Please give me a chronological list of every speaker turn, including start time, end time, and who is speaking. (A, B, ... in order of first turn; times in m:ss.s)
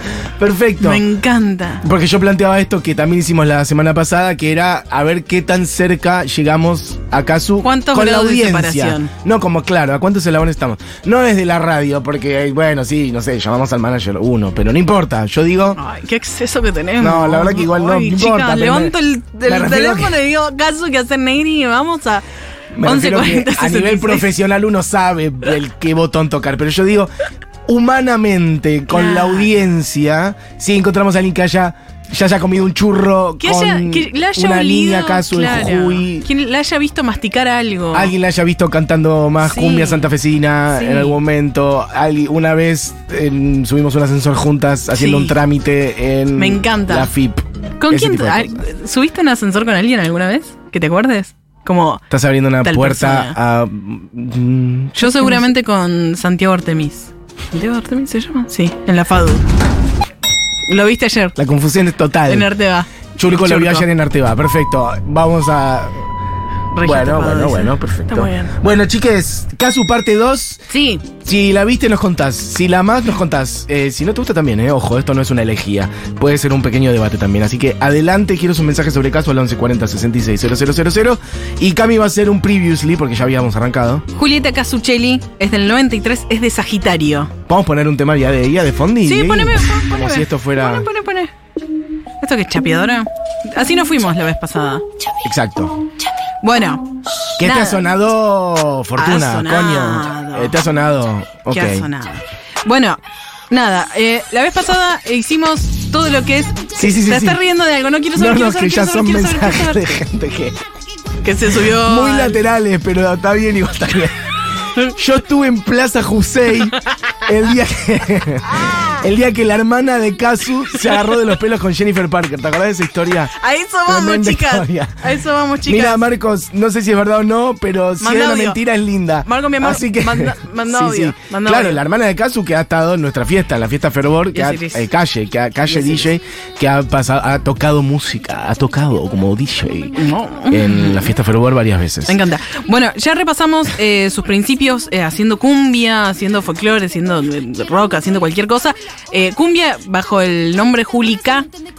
0:00.4-0:01.0 A
0:00.8-0:01.8 B
0:01.8-0:15.8 A
0:07.6-0:09.1 B
0:15.8-0:22.2 B
0:17.0-0:20.2 A
0:22.7-0:27.1 A
0:22.8-0:24.3 B
0:27.6-0:36.3 A
0:28.9-0:29.5 B
0:33.4-0:38.1 B
0:37.9-0:48.6 A
0:39.4-0:40.0 B
0:40.7-0:41.2 B
0:44.9-0:45.4 B
0:46.3-0:47.1 B
0:47.8-0:52.0 B
0:52.1-0:55.4 A
0:52.6-0:53.4 B
0:55.0-0:59.4 B
1:00.7-1:01.4 B
1:01.4-1:02.5 A
1:02.3-1:03.9 B
1:03.2-1:06.1 A
1:06.7-1:08.5 B
1:06.8-1:24.0 A
1:10.7-1:11.0 B
1:24.2-1:27.3 B
1:27.5-1:30.9 A
1:29.0-1:31.3 B
1:32.2-1:34.8 B
1:35.2-1:35.8 A
1:36.4-1:36.8 B
1:37.4-1:37.8 B
1:37.4-1:41.9 A
1:39.0-1:40.5 B
1:41.5-1:43.0 B
1:43.5-1:49.9 B
1:46.8-1:47.4 A
1:48.1-1:50.6 A
1:51.2-1:52.4 B
1:51.6-1:54.2 A
1:54.9-2:03.3 A
2:00.8-2:01.2 B
2:03.4-2:06.0 B
2:03.8-2:05.0 A
2:05.6-2:22.2 A
2:08.0-2:08.6 B
2:09.2-2:11.8 B
2:14.3-2:14.9 B
2:15.7-2:16.1 B
2:20.0-2:21.1 B
2:22.1-2:31.5 B